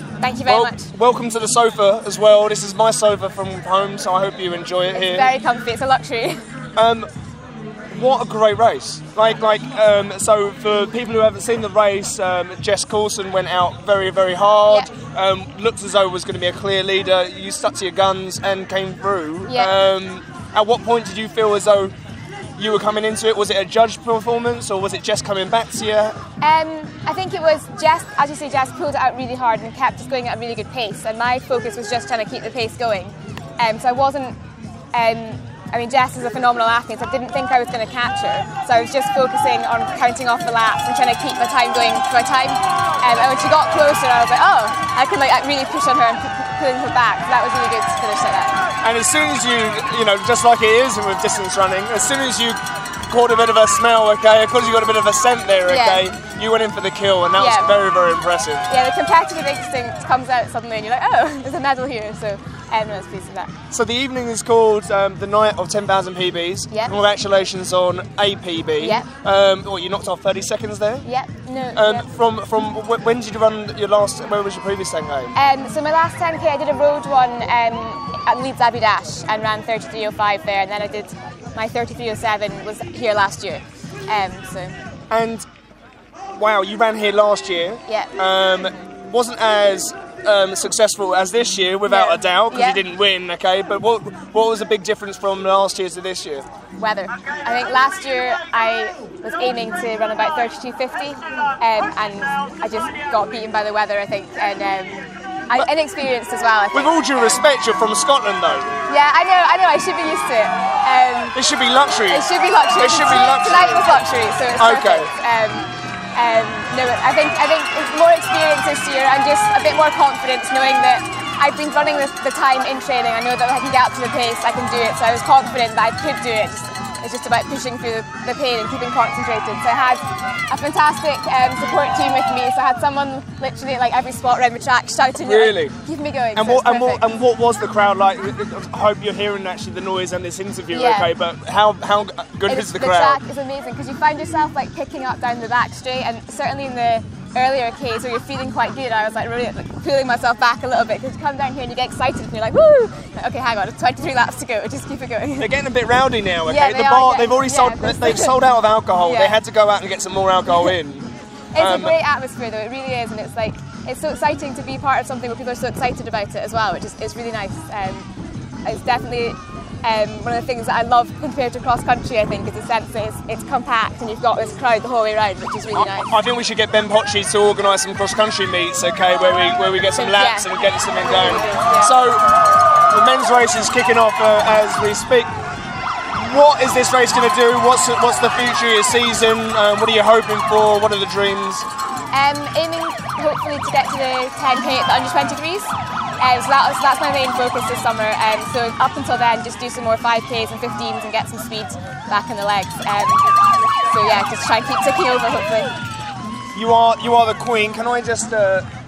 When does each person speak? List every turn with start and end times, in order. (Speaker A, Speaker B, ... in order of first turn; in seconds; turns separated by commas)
Speaker A: 0.2-0.9, Speaker B: 0.5-5.3, Speaker A: 4.9-6.4, Speaker B: 6.8-7.1, Speaker B: 7.9-21.9, Speaker A: 19.5-19.7, Speaker B: 22.6-26.2, Speaker A: 26.4-34.4, Speaker A: 34.9-48.6, Speaker B: 48.8-52.6, Speaker B: 53.1-58.7, Speaker A: 55.7-56.0, Speaker A: 57.4-57.7, Speaker A: 58.7-63.5, Speaker B: 63.7-71.1, Speaker A: 68.8-69.1, Speaker A: 71.0-72.1, Speaker B: 71.8-75.3, Speaker A: 75.3-84.8, Speaker B: 85.1-85.4, Speaker B: 86.3-96.5, Speaker A: 87.9-88.1, Speaker A: 91.9-92.8, Speaker A: 96.8-107.4, Speaker B: 106.7-108.7, Speaker A: 108.9-111.4, Speaker B: 111.3-114.0, Speaker A: 112.1-137.1, Speaker B: 114.6-115.1, Speaker B: 135.2-135.8, Speaker B: 136.3-143.2, Speaker A: 140.7-141.1, Speaker A: 142.5-155.5, Speaker B: 155.4-162.0, Speaker A: 156.5-158.3, Speaker A: 159.0-159.4, Speaker A: 161.5-168.1, Speaker A: 168.7-176.1, Speaker B: 175.7-182.2, Speaker A: 180.0-181.9, Speaker B: 182.9-185.3, Speaker B: 186.1-191.7, Speaker A: 192.1-203.2, Speaker A: 203.9-205.7, Speaker B: 206.5-208.7